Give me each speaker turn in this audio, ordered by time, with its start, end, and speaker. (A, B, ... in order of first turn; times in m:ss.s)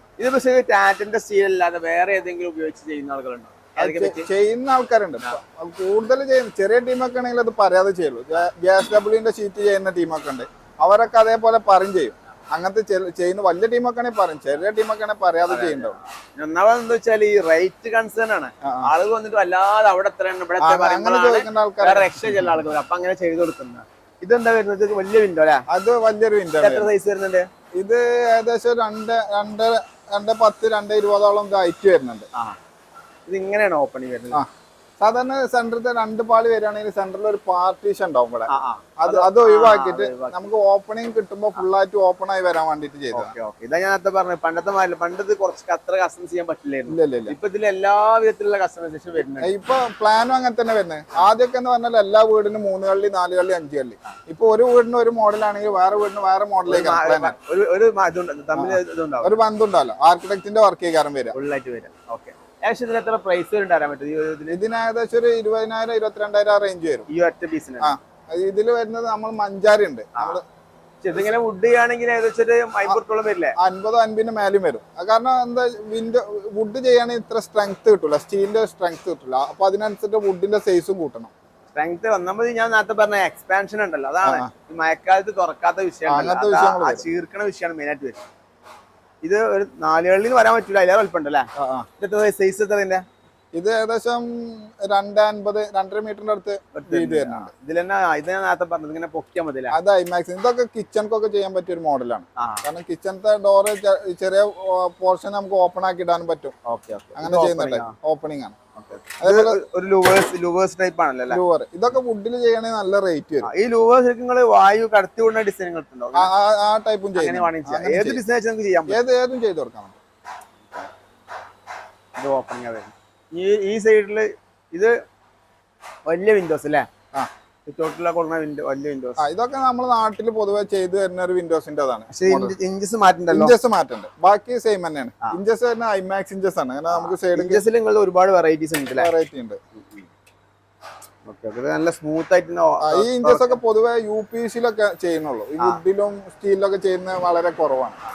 0:00.2-0:04.3 A
0:03.8-0:16.0 B
0:15.4-0:25.6 A
0:18.6-0:18.9 B
0:20.6-0:22.7 B
0:25.7-0:26.9 B
0:26.6-0:27.5 A
0:27.8-0:32.3 B
0:33.3-0:34.4 A
0:35.0-0:43.4 B
0:38.5-0:40.5 A
0:43.1-0:49.5 A
0:46.9-0:47.4 B
0:49.4-0:57.4 B
0:56.7-0:59.4 A
0:58.6-1:01.4 B
1:01.4-1:04.6 A
1:04.5-1:07.1 B
1:07.1-1:07.9 A
1:07.8-1:10.4 B
1:11.0-1:13.6 A
1:13.6-1:21.3 B
1:21.7-1:28.2 A
1:24.2-1:24.5 B
1:26.1-1:27.1 B
1:29.2-1:33.0 A
1:31.6-1:31.9 B
1:33.5-1:37.5 B
1:36.8-1:39.8 A
1:39.7-1:46.6 B
1:42.4-1:42.6 A
1:46.6-1:48.0 A
1:47.2-1:48.6 B
1:48.8-1:51.4 A
1:49.2-1:49.6 B
1:51.3-1:53.5 B
1:53.4-1:56.3 A
1:56.2-1:58.2 B
1:57.2-1:59.0 A
1:58.9-2:00.0 B
2:02.2-2:05.0 A
2:06.1-2:06.9 A
2:07.7-2:09.2 A
2:09.2-2:12.6 B
2:12.1-2:13.5 A
2:13.3-2:17.6 B
2:16.9-2:19.1 A
2:19.0-2:19.6 B
2:19.8-2:20.1 A
2:21.3-2:23.6 A
2:22.8-2:28.0 B